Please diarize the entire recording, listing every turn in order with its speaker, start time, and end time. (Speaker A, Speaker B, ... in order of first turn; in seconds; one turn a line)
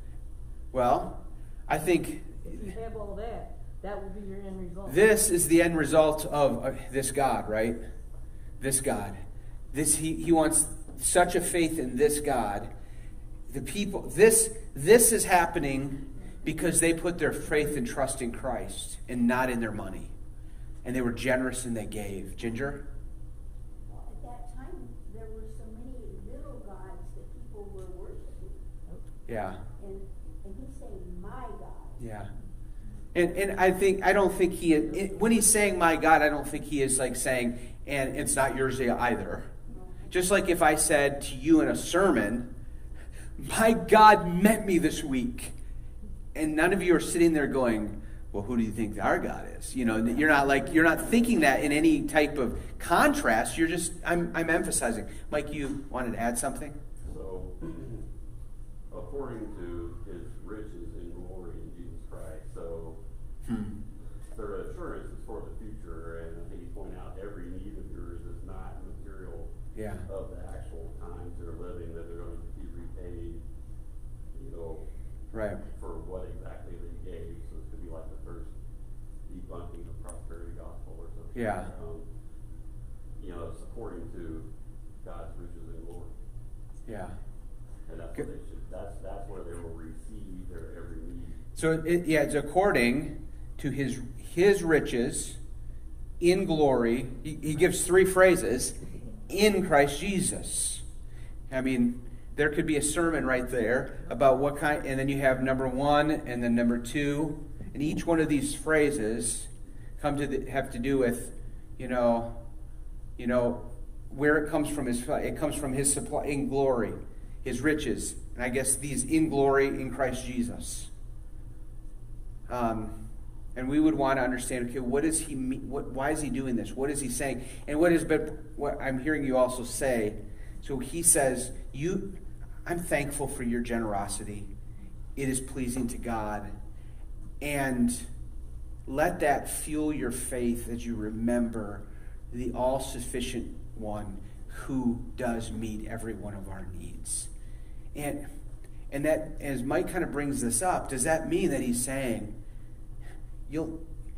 Speaker A: 0.7-2.7
Speaker B: 2.4-5.1
Speaker A: 4.9-7.8
Speaker A: 8.6-9.2
Speaker A: 9.7-12.7
Speaker A: 13.5-20.1
Speaker A: 20.8-22.9
Speaker C: 23.9-28.6
Speaker A: 29.3-29.6
Speaker C: 29.8-32.0
Speaker A: 32.0-32.3
Speaker A: 33.1-39.5
Speaker C: 39.7-40.2
Speaker A: 40.1-42.5
Speaker A: 43.4-45.5
Speaker A: 46.4-56.8
Speaker D: 57.0-58.0
Speaker D: 58.9-63.0
Speaker A: 63.5-63.7
Speaker D: 64.3-73.5
Speaker A: 69.7-70.1
Speaker D: 74.3-74.8
Speaker A: 75.3-75.6
Speaker D: 75.7-78.5
Speaker D: 79.2-82.1
Speaker A: 81.3-81.7
Speaker D: 83.2-84.5
Speaker D: 85.0-86.2
Speaker A: 86.9-87.2
Speaker D: 87.9-91.4
Speaker A: 91.6-95.4
Speaker A: 96.2-100.8
Speaker A: 101.5-112.4
Speaker A: 113.2-120.9
Speaker A: 122.5-123.0
Speaker A: 123.5-134.5
Speaker A: 135.2-136.5
Speaker A: 137.4-138.1
Speaker A: 138.9-147.3
Speaker A: 147.9-148.3
Speaker A: 148.9-152.4
Speaker A: 153.5-153.8